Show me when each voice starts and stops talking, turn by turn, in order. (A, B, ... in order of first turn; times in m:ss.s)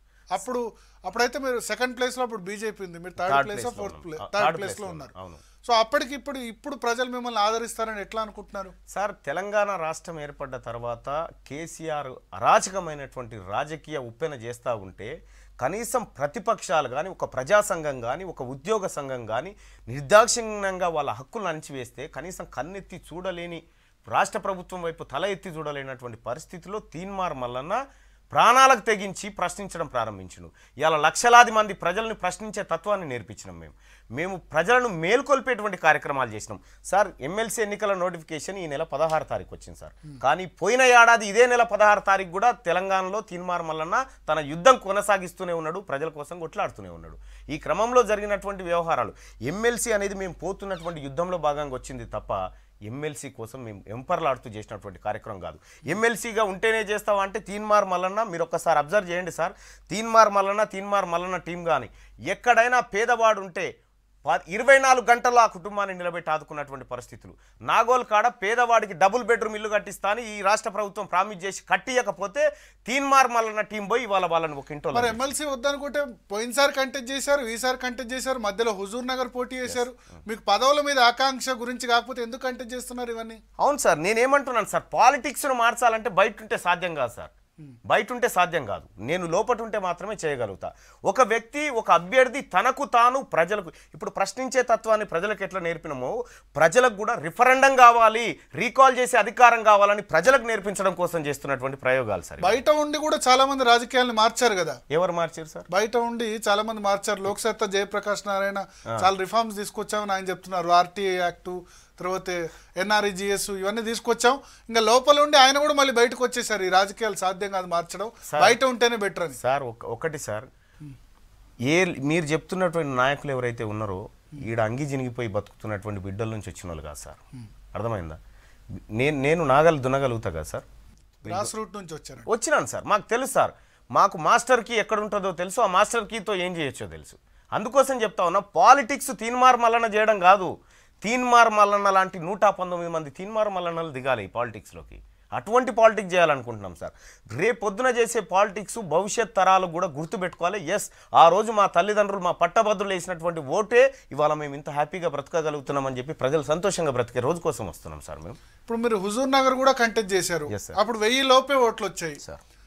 0:00.3-0:08.7 A
0:03.2-0:05.4 B
0:08.9-0:27.8 B
0:28.3-1:03.7 B
1:04.2-1:15.2 B
1:14.9-1:23.4 A
1:23.6-1:27.3 B
1:27.9-1:42.6 B
1:42.4-1:44.8 A
1:44.9-1:45.7 B
1:45.7-1:59.4 A
1:58.3-1:58.6 B
1:59.4-2:00.5 B
2:01.7-2:07.2 B
2:07.7-2:08.2 B
2:08.8-2:10.7 B
2:11.2-2:11.5 B
2:11.2-2:12.3 A
2:12.3-2:38.4 B
2:38.7-2:42.2 A
2:40.5-2:40.8 B